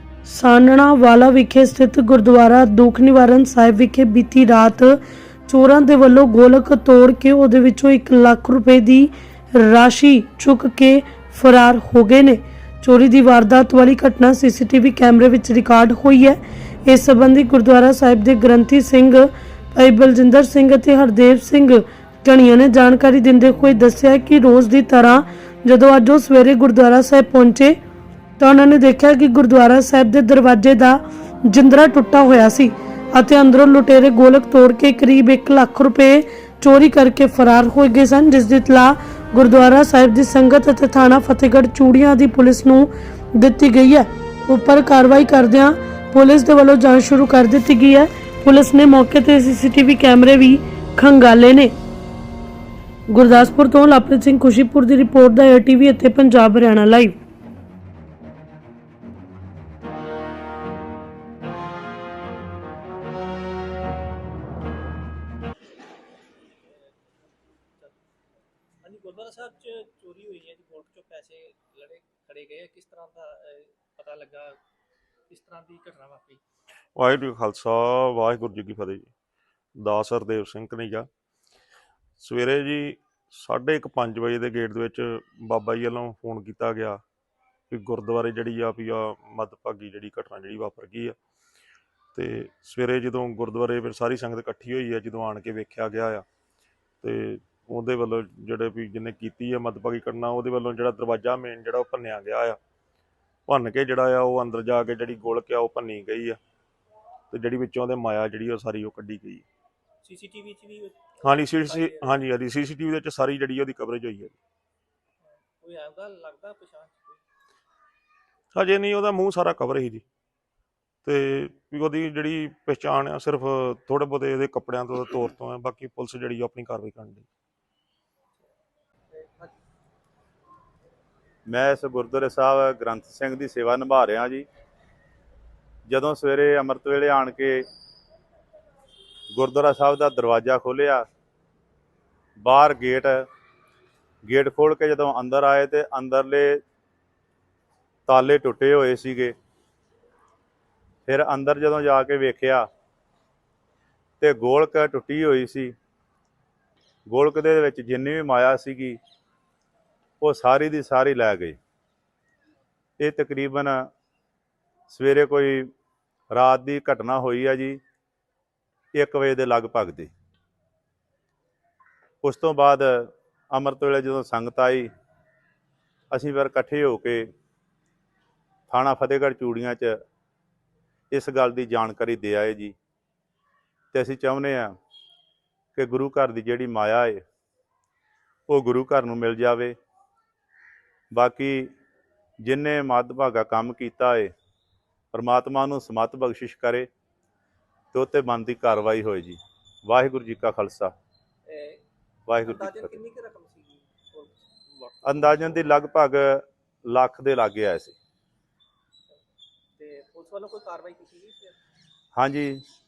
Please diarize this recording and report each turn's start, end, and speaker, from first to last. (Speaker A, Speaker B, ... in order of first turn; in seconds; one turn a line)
Speaker A: 0.2-27.8
Speaker A: 28.4-51.7
Speaker A: 53.1-57.2
Speaker B: 66.7-67.0
Speaker B: 68.8-74.6
Speaker B: 75.3-76.4
Speaker C: 77.0-79.1
Speaker C: 79.8-81.1
Speaker C: 82.2-87.0
Speaker C: 87.7-91.2
Speaker C: 92.1-96.2
Speaker C: 97.0-102.6
Speaker C: 103.5-106.4
Speaker C: 107.3-109.5
Speaker B: 110.0-112.2
Speaker C: 111.2-114.4
Speaker B: 115.2-117.2
Speaker C: 118.5-120.0
Speaker C: 121.0-127.3
Speaker B: 129.1-129.5
Speaker D: 131.5-134.5
Speaker D: 135.9-137.7
Speaker D: 139.3-141.0
Speaker D: 142.4-143.2
Speaker D: 144.2-146.6
Speaker D: 148.1-149.3
Speaker D: 151.1-152.7
Speaker D: 154.2-155.8
Speaker D: 157.1-159.0
Speaker D: 160.2-161.6
Speaker D: 163.0-163.9
Speaker D: 164.9-165.7
Speaker D: 166.3-167.8
Speaker D: 168.9-170.1
Speaker D: 172.2-174.9
Speaker D: 176.1-177.3
Speaker D: 178.7-180.0
Speaker D: 181.1-182.8
Speaker D: 183.9-184.7
Speaker D: 185.8-187.2
Speaker D: 188.5-189.8
Speaker D: 191.1-191.7
Speaker D: 192.4-194.3
Speaker D: 195.1-196.9
Speaker D: 197.9-200.9
Speaker B: 201.5-201.8
Speaker D: 202.3-203.0
Speaker B: 202.4-205.5
Speaker D: 205.1-208.0
Speaker B: 209.8-211.6
Speaker D: 212.2-212.6